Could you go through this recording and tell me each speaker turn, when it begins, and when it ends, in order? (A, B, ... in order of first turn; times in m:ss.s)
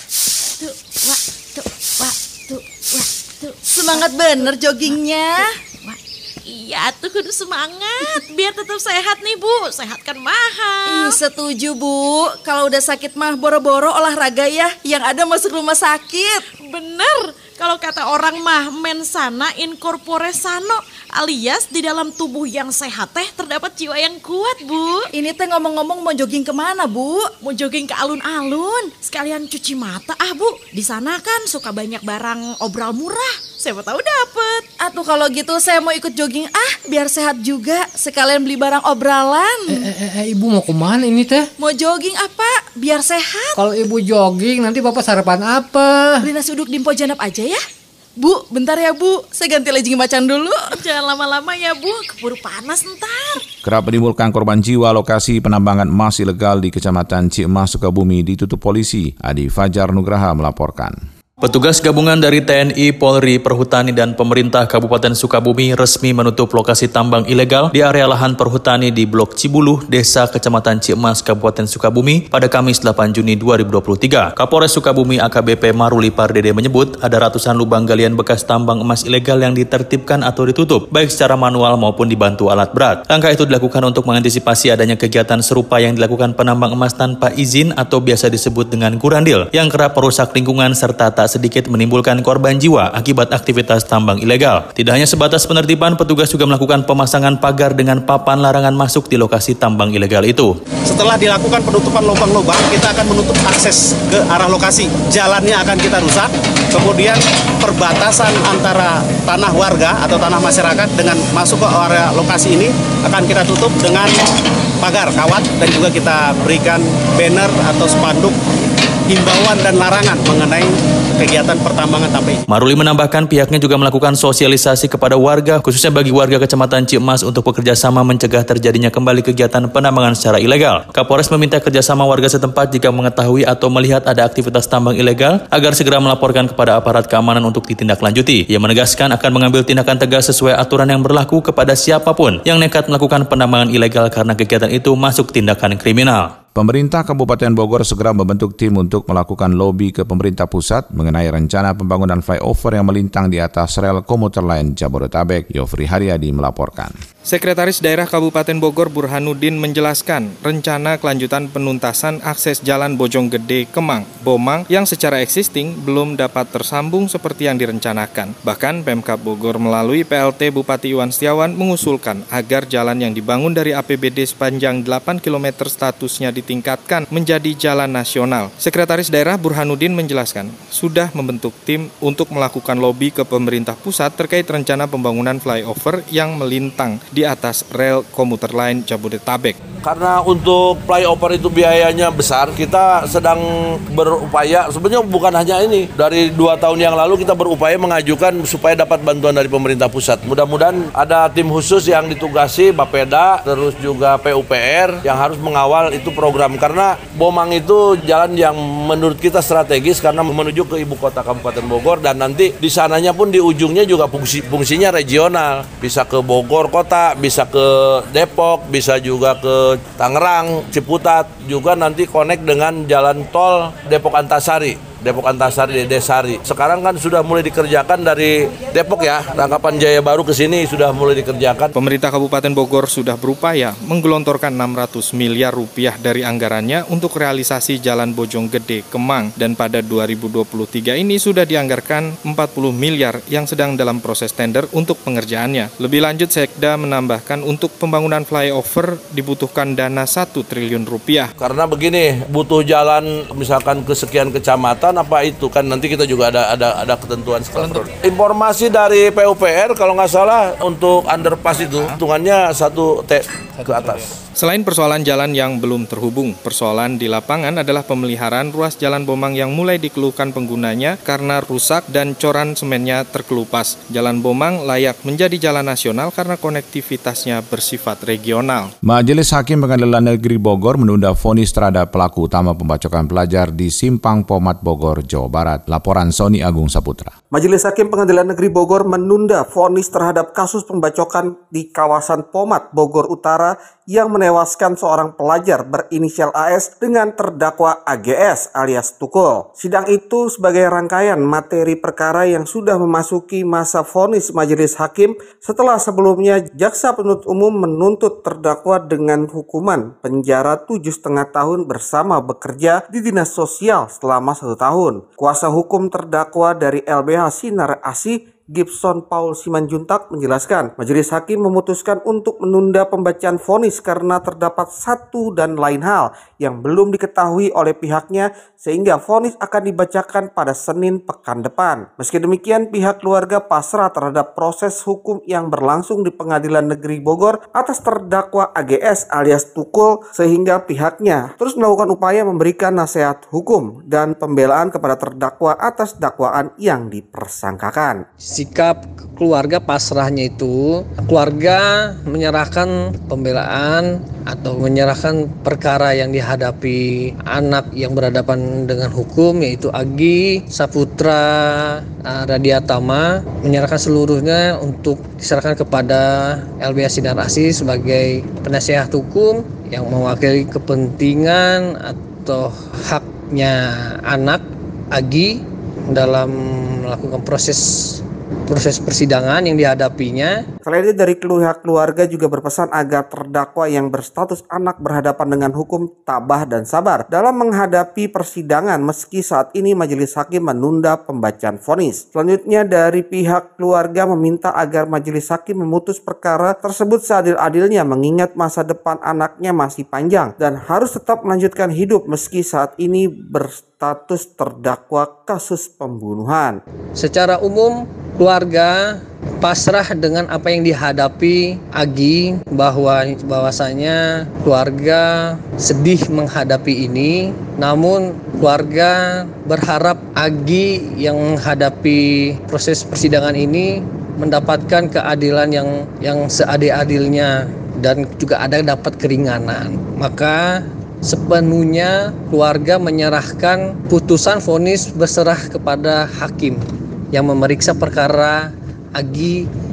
0:00.6-0:11.2 A
0:03.7-0:05.5 B
0:10.9-0:16.4 B
0:16.5-0:25.1 A
0:25.1-0:27.3 B
0:27.4-0:34.7 A
0:34.8-0:39.8 B
0:39.7-0:41.5 C
0:41.6-0:43.4 B
0:43.1-0:43.6 A
0:43.5-0:46.3 C
0:46.3-0:47.6 B
0:48.2-0:50.7 B
0:50.6-0:53.4 A
0:53.6-1:01.0 D
1:01.4-1:40.6 E
1:40.9-1:54.1 F
1:54.8-1:58.3 F
1:59.1-2:02.4 F
2:02.5-2:26.3 E
2:26.6-2:37.0 D
2:37.3-3:09.6 G
3:09.8-3:51.7 H
3:51.8-4:11.3 G
4:11.4-4:24.1 H
4:24.4-4:38.7 G
4:38.8-4:47.1 D
4:47.3-5:48.0 I
5:48.2-6:20.4 J
6:20.6-6:46.6 I
6:47.0-7:19.4 J